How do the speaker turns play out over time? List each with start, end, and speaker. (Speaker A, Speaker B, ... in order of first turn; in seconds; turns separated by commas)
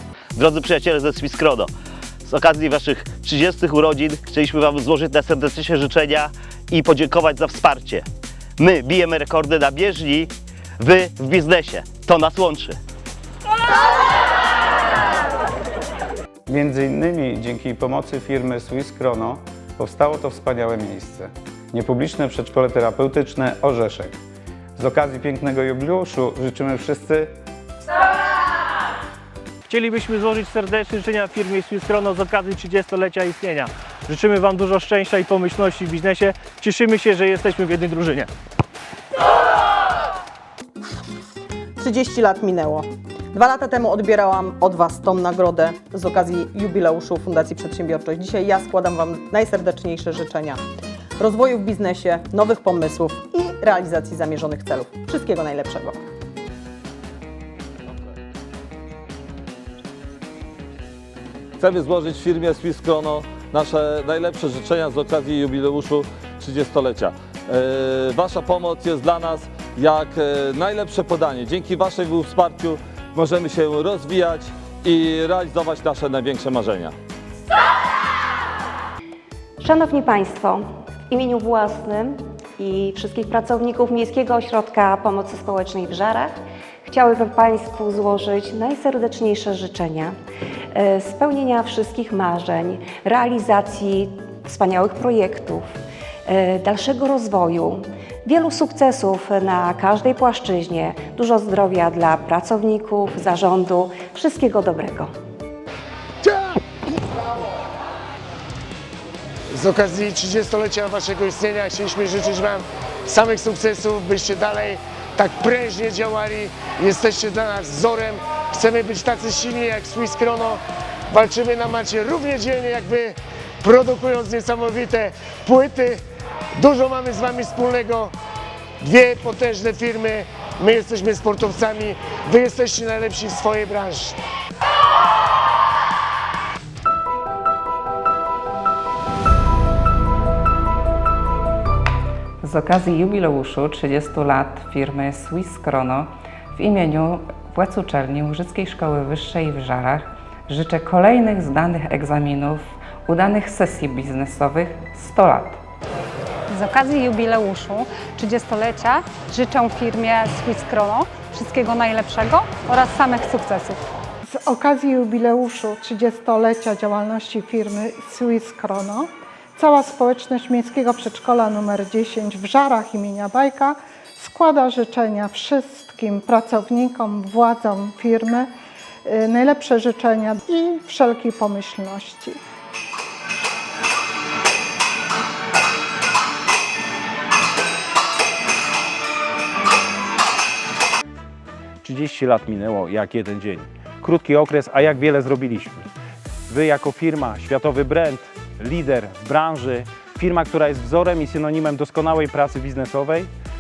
Speaker A: 0.3-1.7, Speaker A: 2.2-8.0, Speaker A: 8.6-12.8, Speaker B: 16.5-24.1, Speaker B: 24.8-27.3, Speaker C: 29.7-38.3, Speaker D: 41.8-50.6, Speaker D: 51.2-56.0, Speaker E: 61.6-76.9, Speaker F: 79.6-86.3, Speaker F: 86.8-90.2, Speaker F: 90.7-95.7, Speaker F: 96.2-105.1, Speaker G: 109.5-120.6, Speaker G: 121.1-126.0, Speaker G: 126.6-128.1, Speaker G: 128.8-134.1, Speaker H: 142.4-146.1, Speaker H: 146.6-155.5, Speaker I: 156.5-163.8, Speaker J: 164.3-178.5, Speaker J: 179.0-182.4, Speaker K: 191.8-195.9, Speaker K: 196.5-203.3